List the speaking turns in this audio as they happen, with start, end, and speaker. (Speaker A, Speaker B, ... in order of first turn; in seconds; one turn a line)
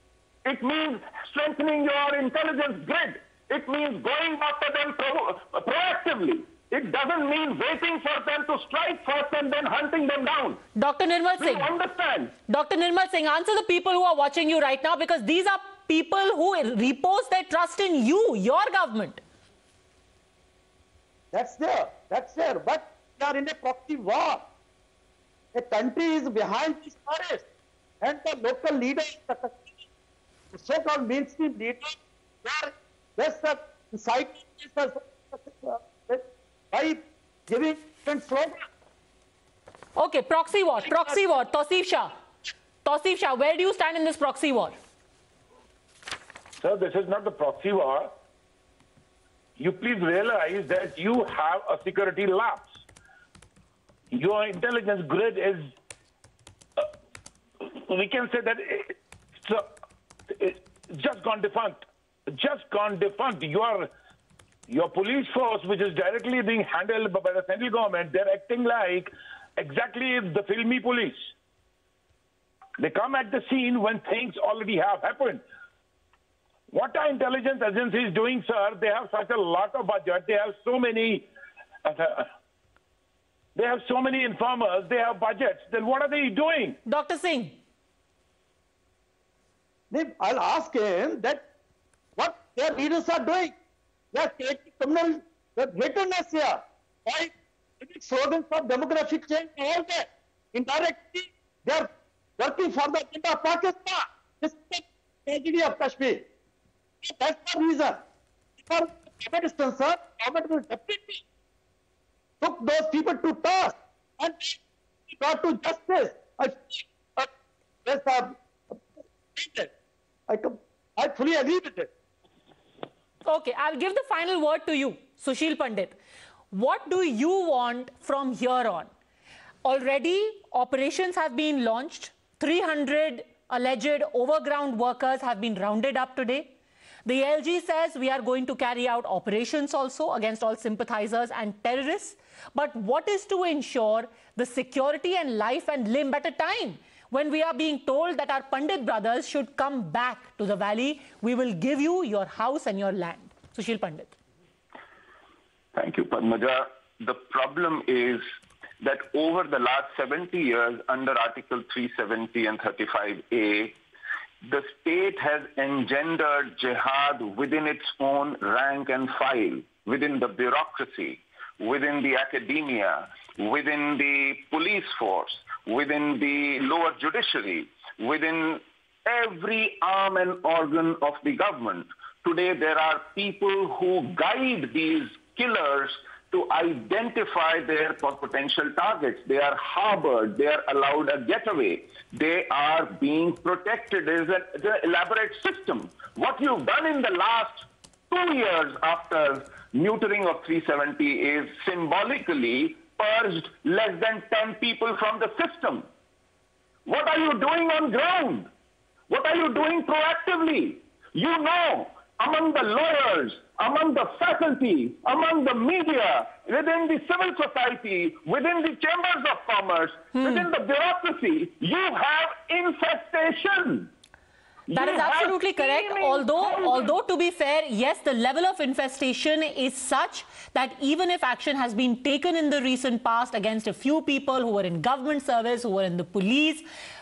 Speaker A: 0.5-10.6
Speaker B: 10.8-11.7
Speaker A: 11.4-12.3
Speaker B: 12.5-19.2
Speaker C: 21.3-24.4
Speaker C: 25.5-27.4
Speaker C: 28.0-29.8
Speaker C: 30.5-38.6
Speaker B: 40.0-42.1
Speaker B: 42.8-44.8
Speaker D: 46.6-48.1
Speaker D: 49.6-52.7
Speaker D: 54.1-55.7
Speaker D: 57.6-59.7
Speaker D: 60.3-63.9
Speaker D: 64.7-71.3
Speaker D: 72.8-75.4
Speaker D: 76.7-81.3
Speaker D: 81.8-82.3
Speaker D: 83.5-86.8
Speaker B: 86.9-87.6
Speaker C: 89.9-91.4
Speaker C: 92.2-93.5
Speaker C: 94.1-106.2
Speaker C: 107.0-108.0
Speaker C: 108.6-111.2
Speaker C: 112.4-117.3
Speaker C: 117.8-118.8
Speaker C: 119.3-119.7
Speaker C: 120.3-121.9
Speaker B: 123.2-126.0
Speaker B: 126.5-128.9
Speaker B: 129.6-136.5
Speaker B: 137.0-154.1
Speaker A: 155.7-158.2
Speaker A: 158.8-163.8
Speaker A: 164.4-205.9
Speaker A: 206.8-208.5
Speaker A: 209.1-223.9
Speaker A: 224.7-226.9
Speaker B: 224.7-236.6